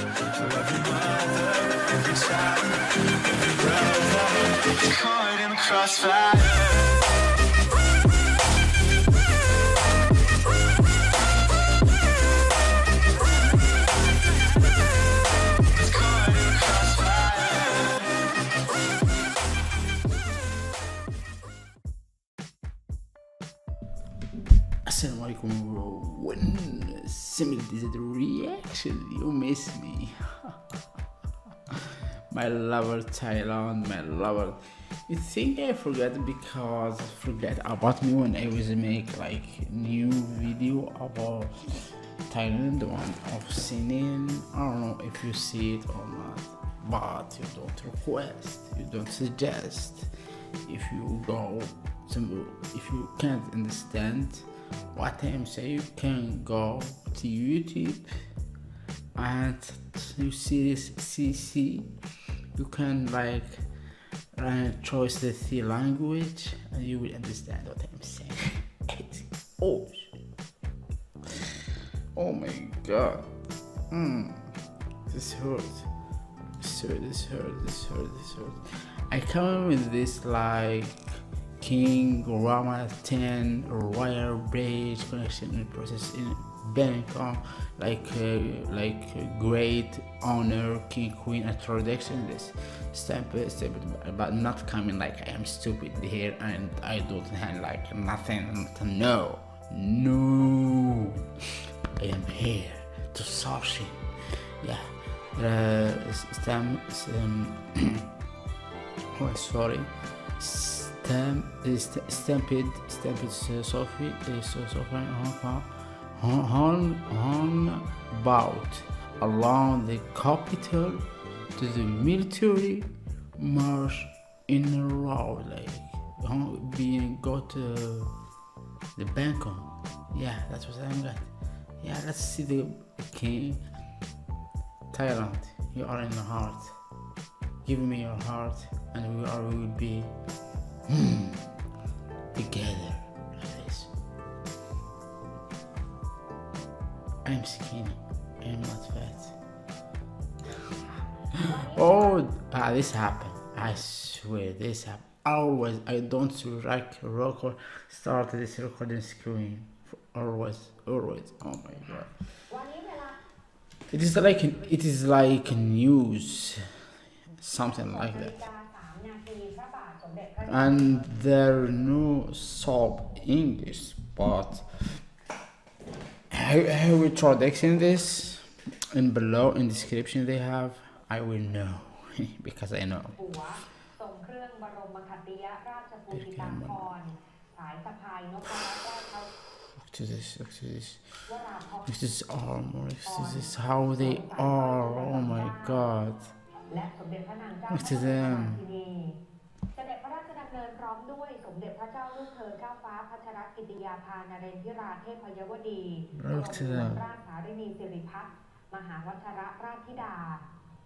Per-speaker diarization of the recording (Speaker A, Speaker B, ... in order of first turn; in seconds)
Speaker A: 0.3-7.0, 15.7-18.1
Speaker B: 24.9-30.6, 32.3-50.1, 50.6-58.1, 59.2-61.9, 62.5-63.7, 64.3-70.2, 72.1-73.3, 73.9-74.5, 75.1-75.9, 76.6-101.2, 102.0-104.0, 104.6-108.1, 109.1-121.0, 121.5-128.1, 128.9-133.7, 134.9-136.8, 137.6-140.1, 140.9-141.4, 142.3-143.9, 147.2-149.3, 151.4-162.1, 163.9-166.6, 167.4-168.4, 170.5-174.8, 176.3-183.2, 186.1-186.9, 189.8-191.2, 191.8-196.3, 197.7-198.6, 206.2-207.0
Speaker C: 150.8-152.3, 161.8-163.2, 163.9-165.2, 167.6-171.1, 183.2-189.3, 191.3-192.0, 193.0-195.9, 196.7-199.2, 199.7-210.4